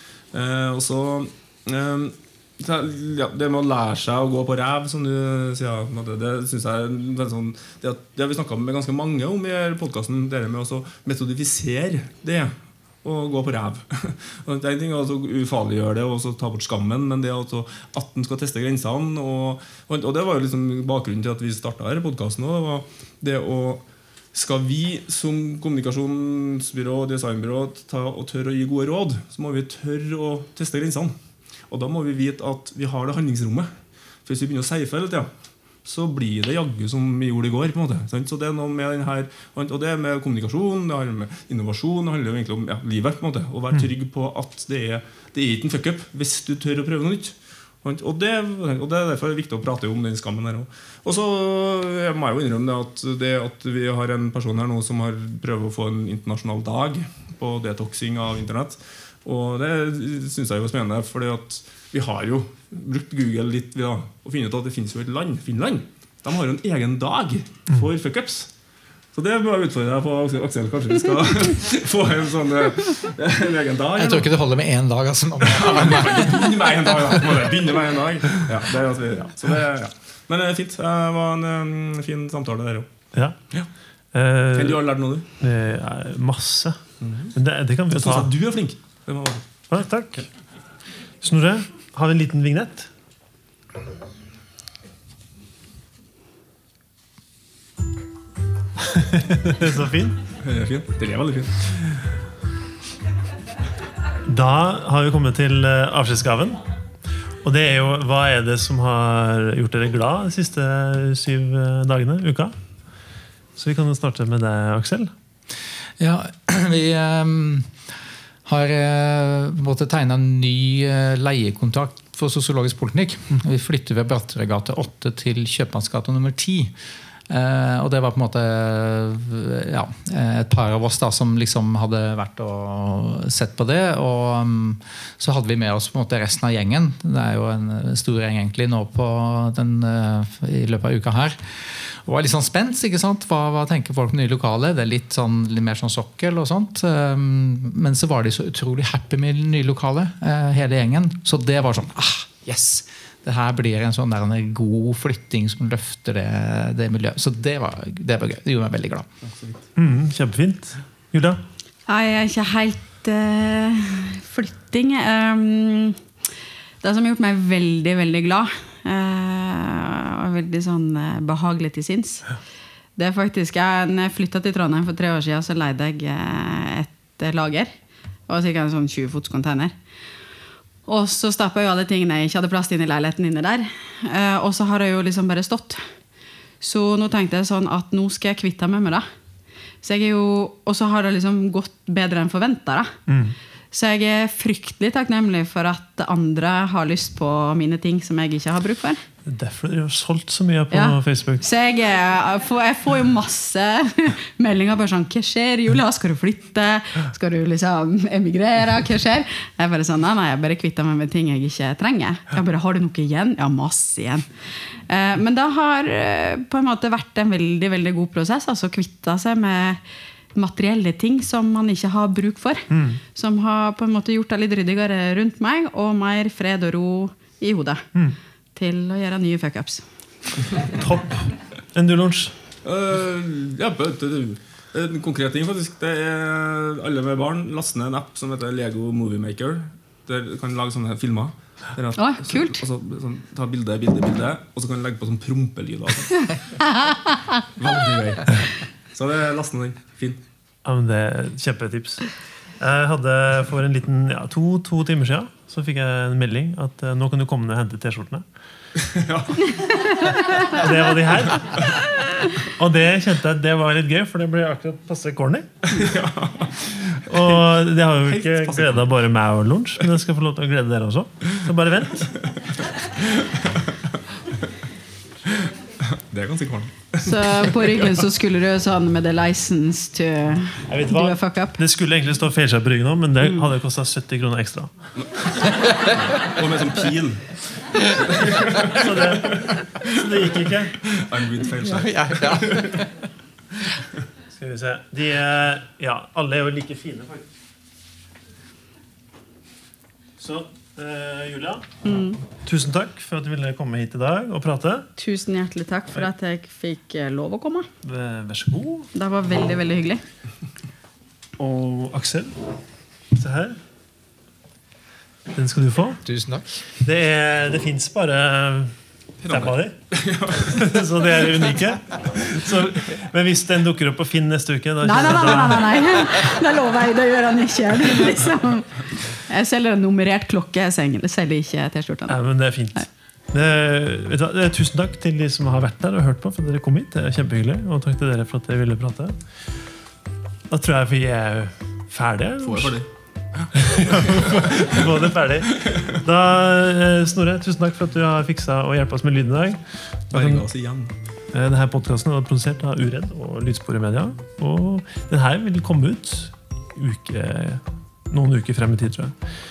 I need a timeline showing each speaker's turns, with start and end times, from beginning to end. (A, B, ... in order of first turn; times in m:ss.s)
0:00.3-0:31.1 A
0:31.7-0:33.7 A
0:34.2-0:35.3 A
0:35.8-1:08.5 A
1:09.1-1:14.3 A
1:14.0-1:17.2 B
1:15.4-1:22.9 A
1:23.1-1:23.6 C
1:24.1-1:28.3 C
1:24.5-1:25.2 A
1:27.0-1:27.3 A
1:27.9-1:29.5 A
1:29.7-1:30.3 C
1:31.2-1:32.9 C
1:38.9-1:40.2 C
1:40.4-1:41.9 A
1:44.3-1:46.6 C
1:47.4-1:52.5 C
1:53.6-1:55.1 C
1:56.0-1:57.7 B
1:58.4-2:06.7 B
2:07.3-2:39.1 B
2:39.2-2:39.6 A
2:39.8-2:41.4 C
2:41.9-2:46.0 D
2:46.8-2:52.3 D
2:53.0-2:57.7 D
2:58.3-2:59.7 D
3:00.8-3:05.8 D
3:06.6-3:09.0 D
3:09.8-3:12.9 D
3:13.1-3:13.4 C
3:13.7-3:19.0 D
3:19.2-3:21.4 C
3:20.7-3:39.8 D
3:40.3-3:47.9 D
3:42.7-3:43.0 C
3:48.6-3:49.8 D
3:50.7-3:52.3 C
3:52.6-4:06.5 A
4:02.0-4:02.6 D
4:07.6-4:10.2 A
4:10.6-4:18.2 C
4:18.8-4:19.5 A
4:20.1-4:21.9 C
4:22.4-4:25.8 C
4:25.7-4:27.2 A
4:27.0-4:32.3 C
4:28.1-4:28.8 A
4:35.9-4:37.9 A
4:37.0-4:41.6 D
4:40.7-4:44.9 C
4:45.0-4:45.5 A
4:46.1-4:47.4 A
4:48.2-4:48.9 A
4:48.7-4:50.9 C
4:50.9-4:52.8 A
4:51.6-4:52.9 B
4:54.4-4:57.3 C
5:00.2-5:01.7 C
5:01.8-5:02.2 D
5:02.3-5:04.9 C
5:05.0-5:07.7 D
5:07.8-5:08.9 C
5:08.9-5:10.0 D
5:11.4-5:12.4 C
5:13.1-5:13.6 C
5:15.3-5:16.0 C
5:16.0-5:16.4 B
5:16.8-5:18.7 C
5:19.2-5:20.6 A
5:19.2-5:19.7 C
5:20.4-5:26.0 C
5:24.8-5:32.2 D
5:32.1-5:39.5 C
5:40.5-5:42.8 C
5:42.4-5:44.8 A
5:43.5-5:50.4 C
5:50.1-5:50.9 A
5:51.3-5:59.2 C